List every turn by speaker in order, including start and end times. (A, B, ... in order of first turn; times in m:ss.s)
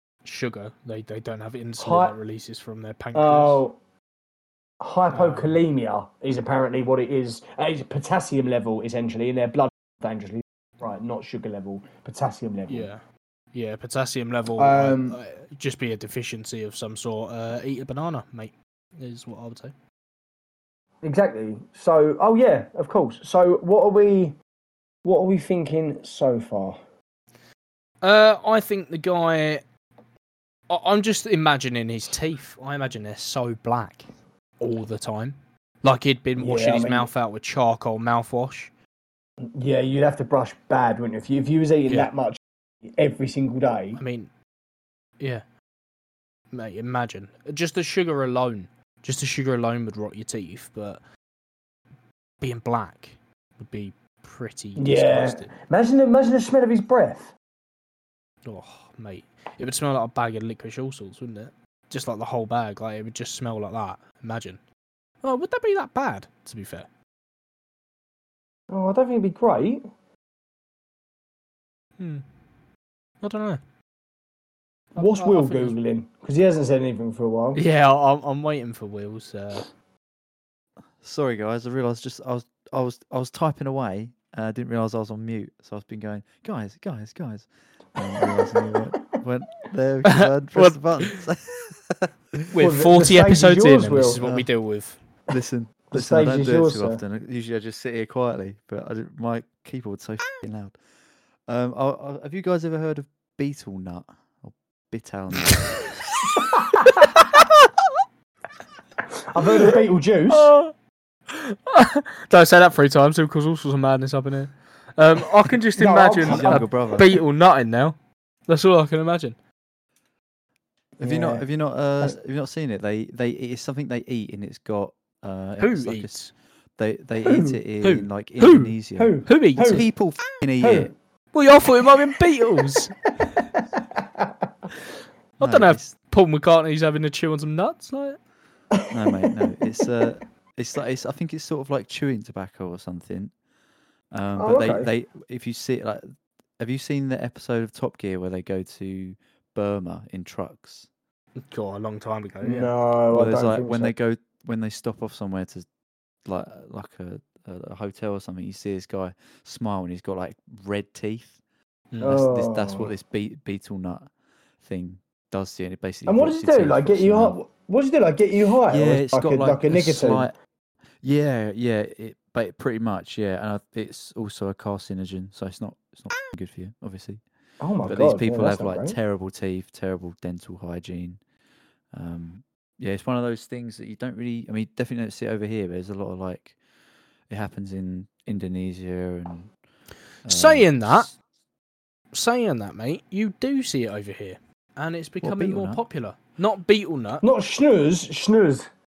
0:00.2-0:03.6 A
0:01.8-0:02.2 B
0:03.2-0:03.8 B
0:04.8-0:12.9 B
0:05.1-0:05.6 A
0:12.7-0:13.0 A
0:13.5-0:19.7 A
0:14.6-0:15.2 B
0:21.0-0:24.4 B
0:25.0-0:26.8 B
0:28.0-0:29.6 A
0:30.7-0:34.1 A
0:34.6-0:38.7 A
0:36.4-0:37.1 B
0:39.6-0:42.4 B
0:42.9-0:44.0 B
0:44.0-0:44.3 A
0:46.5-0:51.0 A
0:52.4-0:55.5 A
0:54.8-0:57.3 B
0:58.4-1:04.6 A
1:05.2-1:06.9 A
1:08.7-1:09.8 B
1:12.0-1:12.2 A
1:13.2-1:13.6 A
1:15.0-1:15.8 A
1:15.0-1:17.6 B
1:17.5-1:19.7 A
1:21.0-1:32.6 C
1:28.3-1:28.7 B
1:30.0-1:31.1 A
1:32.5-1:35.0 A
1:32.6-1:34.2 B
1:34.2-1:34.5 C
1:35.3-1:40.8 C
1:35.9-1:37.0 B
1:41.5-1:45.9 C
1:49.3-1:50.5 B
1:50.3-1:50.7 A
1:51.3-1:59.4 A
1:55.8-1:56.7 B
1:56.2-1:57.1 C
2:01.0-2:06.2 C
2:01.0-2:01.4 B
2:05.6-2:06.3 A
2:06.8-2:10.9 C
2:07.2-2:07.6 B
2:07.8-2:08.8 A
2:09.0-2:09.9 B
2:09.3-2:09.8 A
2:10.6-2:10.9 B
2:11.3-2:13.0 A
2:14.0-2:14.3 B
2:15.4-2:18.2 A
2:15.4-2:15.9 C
2:18.8-2:19.3 B
2:18.9-2:23.3 C
2:24.1-2:30.9 C
2:24.4-2:24.9 B
2:31.4-2:32.7 A
2:32.4-2:33.9 B
2:33.1-2:35.6 C
2:36.3-2:41.4 C
2:41.9-2:42.2 A
2:42.0-2:44.1 C
2:42.0-2:42.9 B
2:44.6-2:47.4 C
2:46.1-2:50.3 B
2:48.7-2:50.3 C
2:51.0-2:57.2 C
2:57.6-2:59.0 B
2:57.8-3:01.2 C
3:01.9-3:06.6 C
3:07.3-3:09.5 C
3:10.2-3:11.1 A
3:10.2-3:11.1 C
3:12.1-3:17.2 A
3:15.2-3:15.8 C
3:17.2-3:18.7 B